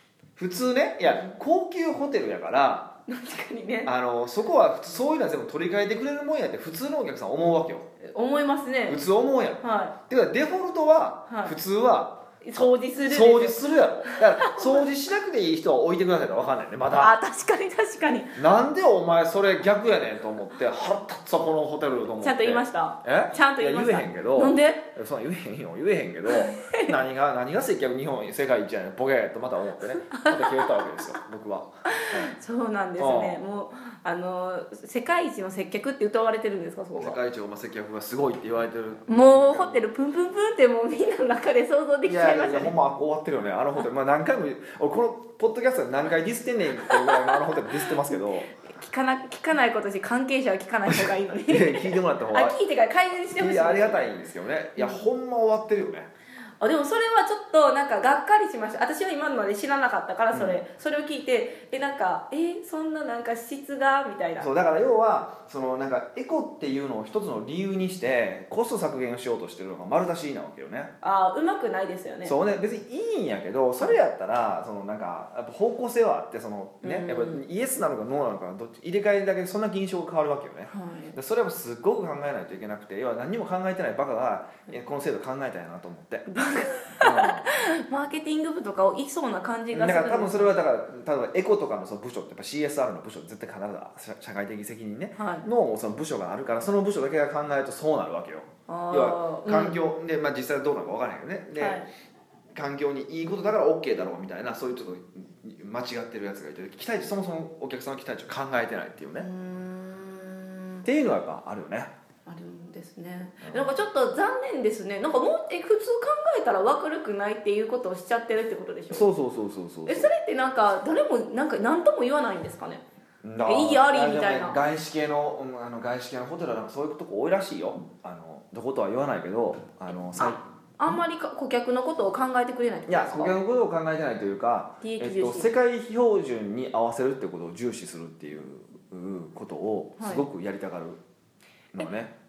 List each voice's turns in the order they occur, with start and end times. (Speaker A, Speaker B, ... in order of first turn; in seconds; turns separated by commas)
Speaker A: 0.4-3.0, Speaker B: 3.1-3.9, Speaker A: 3.9-7.9, Speaker B: 8.0-9.0, Speaker A: 8.9-17.1, Speaker B: 9.6-9.9, Speaker B: 11.3-11.6, Speaker B: 12.4-14.9, Speaker B: 16.9-18.4, Speaker A: 18.4-32.4, Speaker B: 22.2-24.9, Speaker B: 26.3-26.9, Speaker B: 30.1-30.6, Speaker B: 32.0-37.2, Speaker A: 33.0-33.4, Speaker A: 37.0-39.8, Speaker B: 39.1-42.8, Speaker A: 42.0-48.5, Speaker B: 46.9-54.1, Speaker A: 50.9-52.6, Speaker A: 53.4-56.1, Speaker B: 56.6-64.5, Speaker A: 60.3-60.6, Speaker A: 64.4-70.9, Speaker B: 71.0-72.4, Speaker A: 72.2-87.6, Speaker B: 76.8-77.4, Speaker B: 80.7-81.2, Speaker B: 86.3-90.5, Speaker A: 89.7-101.8, Speaker B: 95.2-95.5, Speaker B: 98.7-99.8, Speaker B: 101.6-101.9, Speaker A: 102.5-109.3, Speaker B: 109.2-110.9, Speaker A: 110.8-111.9, Speaker B: 112.3-119.1, Speaker A: 113.4-113.8, Speaker A: 118.9-120.1, Speaker B: 119.9-122.8, Speaker A: 123.2-130.4, Speaker B: 123.5-124.6, Speaker B: 130.2-133.4, Speaker A: 132.9-141.0, Speaker B: 134.8-135.5, Speaker B: 140.0-140.2, Speaker A: 141.7-142.1